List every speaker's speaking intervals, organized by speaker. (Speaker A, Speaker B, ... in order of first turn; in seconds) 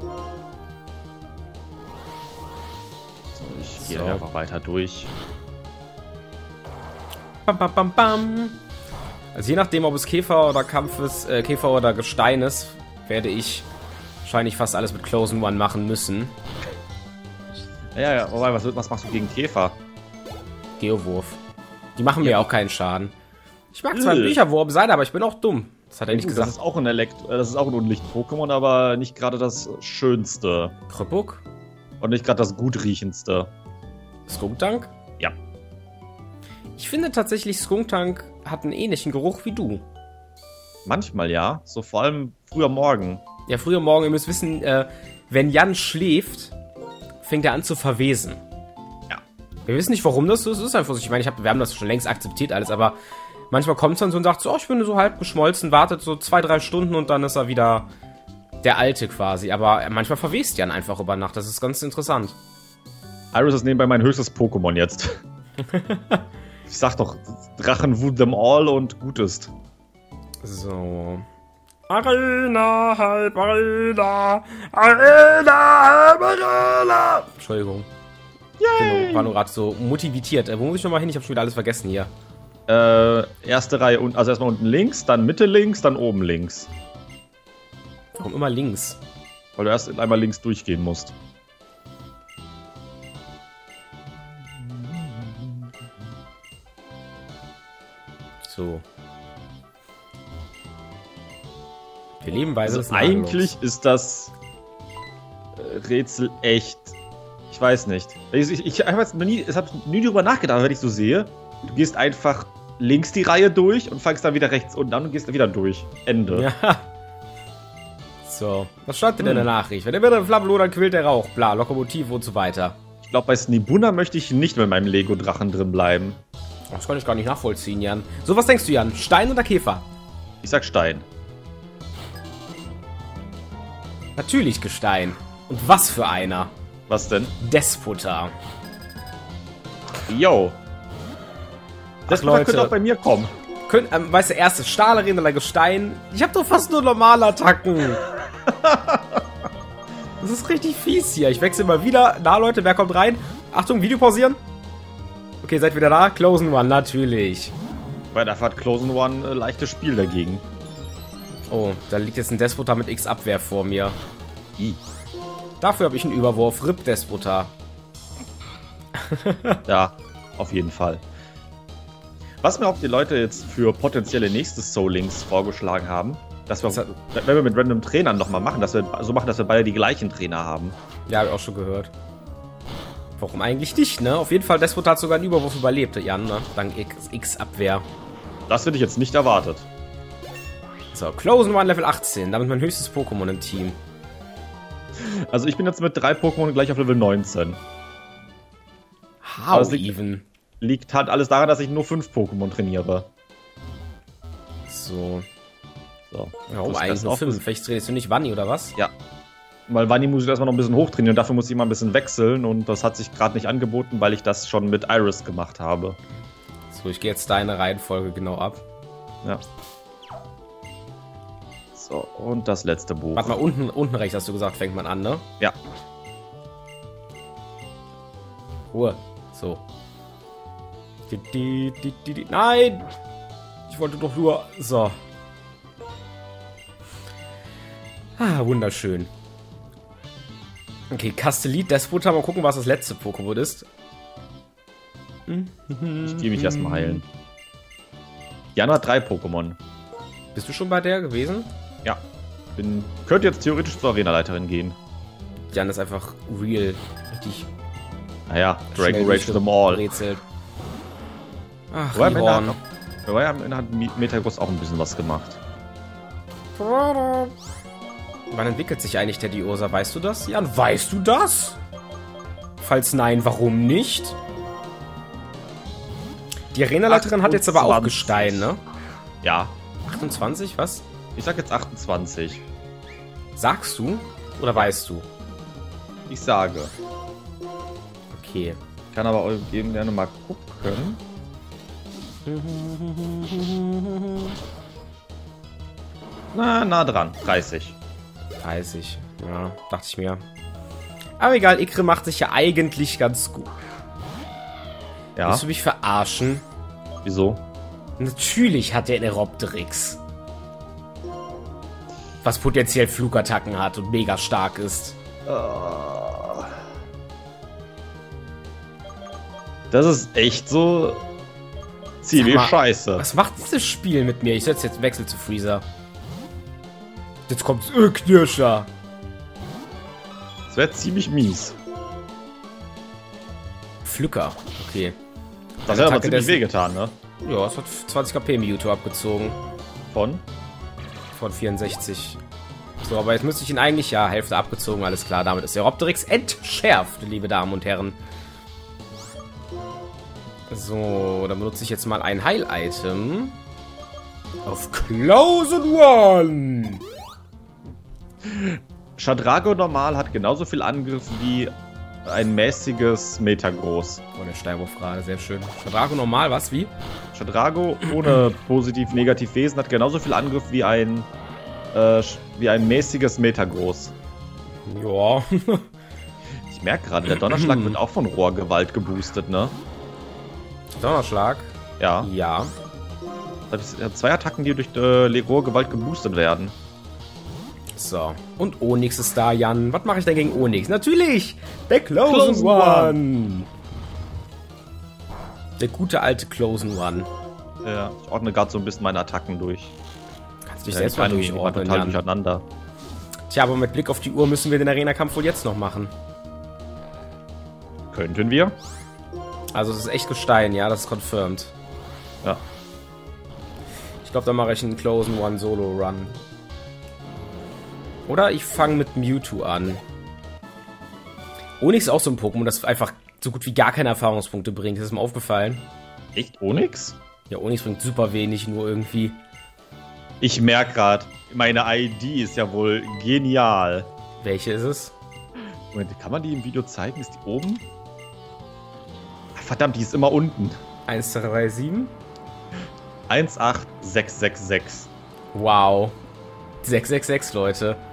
Speaker A: 3.3-5.1, 17.9-19.8, 22.2-22.5, 23.9-24.4, 26.1-30.7, 32.0-33.5, 40.9-43.2, 63.3-65.2, 66.7-69.5, 78.6-79.3, 82.7-86.7, 89.6-91.1, 94.6-95.7, 102.6-104.3, 105.5-107.0, 107.5-116.5, 119.2-119.5, 123.0-126.2, 130.4-131.1, 136.9-137.3, 140.1-140.6, 142.1-143.3, 148.5-149.2, 158.1-160.4, 169.7-171.0, 172.4-180.7, 188.5-189.7, 195.0-197.6, 199.5-199.9, 200.6-203.1, 206.1-207.4, 209.7-216.0, 221.7-223.4, 246.0-247.0, 248.6-249.6, 252.6-254.8, 258.3-259.8, 261.9-265.4, 276.9-278.5, 279.2-279.6, 281.1-282.4, 286.1-286.7, 288.9-291.0, 296.3-297.8, 305.1-305.4, 307.0-307.4, 315.2-316.6, 319.7-321.0, 322.0-323.0, 330.5-331.6, 335.7-336.9, 339.9-340.2, 359.0-361.5, 362.0-364.0, 367.1-371.1, 371.7-373.9, 376.5-379.5, 381.8-382.1, 383.5-386.5, 392.1-393.0, 397.6-399.7, 400.7-402.4, 407.9-408.5, 426.1-427.0, 430.2-433.9, 435.7-437.6, 439.3-440.6, 443.1-444.9
Speaker B: 3.8-4.2, 7.5-8.6, 9.3-13.7, 14.2-16.3, 20.8-21.4, 22.0-23.1, 23.7-26.5, 30.9-31.4, 34.3-34.9, 36.8-39.8, 43.5-46.5, 47.2-48.4, 49.7-53.0, 53.5-57.9, 58.6-62.4, 65.6-66.2, 70.4-71.2, 71.9-77.9, 78.7-82.1, 88.1-89.0, 98.4-98.8, 102.2-103.5, 116.3-116.8, 118.2-122.8, 126.7-129.8, 134.2-136.5, 137.4-138.3, 142.1-142.7, 143.7-148.0, 150.2-154.4, 155.4-157.5, 161.5-164.0, 165.6-167.5, 169.0-169.6, 181.1-181.9, 183.2-187.8, 190.9-193.8, 199.2-200.2, 204.7-205.2, 206.5-208.7, 216.7-218.6, 223.1-225.2, 228.7-229.6, 231.1-232.9, 233.7-235.0, 238.2-239.1, 240.9-243.7, 245.3-247.0, 250.3-251.5, 255.5-257.5, 258.7-260.2, 261.7-262.6, 266.6-267.3, 268.3-271.6, 272.6-274.2, 276.5-278.6, 279.9-280.8, 283.4-285.1, 288.1-288.6, 292.2-294.4, 298.4-300.2, 301.2-303.5, 305.2-306.4, 308.0-310.0, 312.2-315.0, 322.1-325.6, 327.3-328.7, 333.8-334.9, 335.7-336.4, 337.2-339.4, 341.1-342.2, 342.8-348.0, 350.5-353.4, 354.4-356.8, 364.1-366.7, 374.6-375.7, 377.1-377.8, 380.8-382.5, 387.8-393.5, 395.6-397.1, 400.5-402.0, 403.3-405.9, 409.5-411.5, 414.0-416.2, 418.1-419.8, 421.6-425.7, 427.3-429.2, 434.2-434.9, 440.9-441.9, 445.3-446.0, 446.6-447.8